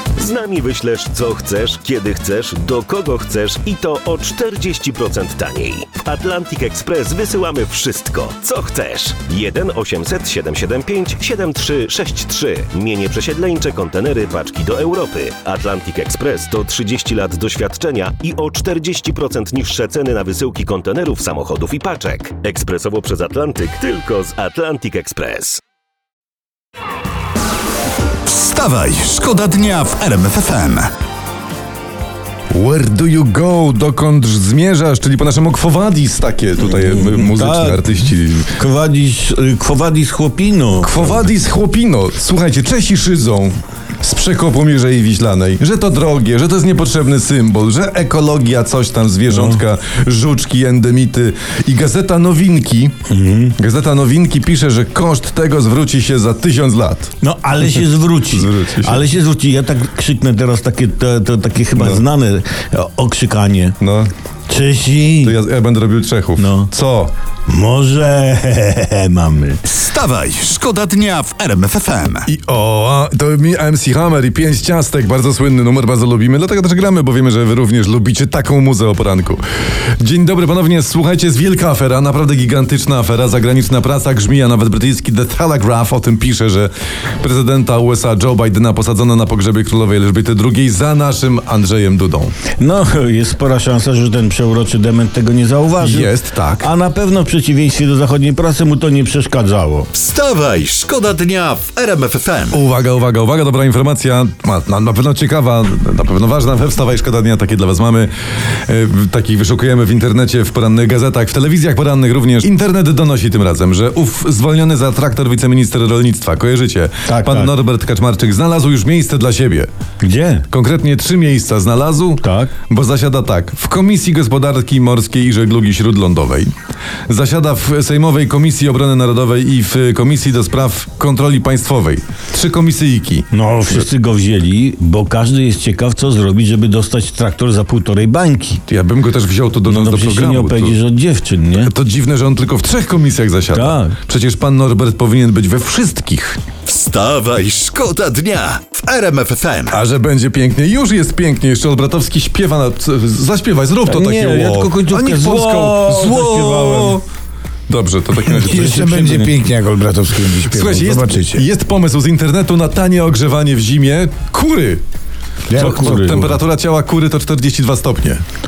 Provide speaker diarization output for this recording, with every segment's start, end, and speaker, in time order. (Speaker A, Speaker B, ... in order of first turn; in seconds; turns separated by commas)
Speaker A: 0.1-25.6, Speaker B: 28.2-30.9, Speaker C: 32.5-38.5, Speaker D: 36.8-37.9, Speaker D: 38.5-41.3, Speaker C: 40.8-52.9, Speaker D: 49.3-49.6, Speaker D: 53.1-53.5, Speaker C: 53.5-59.0, Speaker D: 57.2-63.8, Speaker C: 61.8-62.0, Speaker C: 63.8-64.1, Speaker D: 64.5-65.3, Speaker C: 65.2-67.1, Speaker D: 66.4-66.7, Speaker D: 67.5-69.6, Speaker B: 69.7-72.3, Speaker C: 72.2-79.4, Speaker C: 80.0-92.3, Speaker D: 92.6-99.9, Speaker C: 95.8-96.7, Speaker B: 99.9-102.6, Speaker C: 102.5-108.1, Speaker C: 108.7-119.7, Speaker D: 117.1-117.5, Speaker D: 120.0-120.5, Speaker C: 120.5-126.5, Speaker D: 122.2-122.5, Speaker C: 127.1-133.9, Speaker D: 133.3-138.6, Speaker C: 138.7-140.8, Speaker D: 139.7-141.7, Speaker C: 141.5-146.4, Speaker D: 143.5-143.9, Speaker B: 146.7-149.8, Speaker C: 149.7-157.0, Speaker D: 153.8-157.0, Speaker C: 157.7-159.3, Speaker E: 158.4-161.4, Speaker D: 158.4-159.1, Speaker C: 160.4-164.8, Speaker E: 165.5-166.2, Speaker D: 165.5-166.4, Speaker C: 165.5-168.2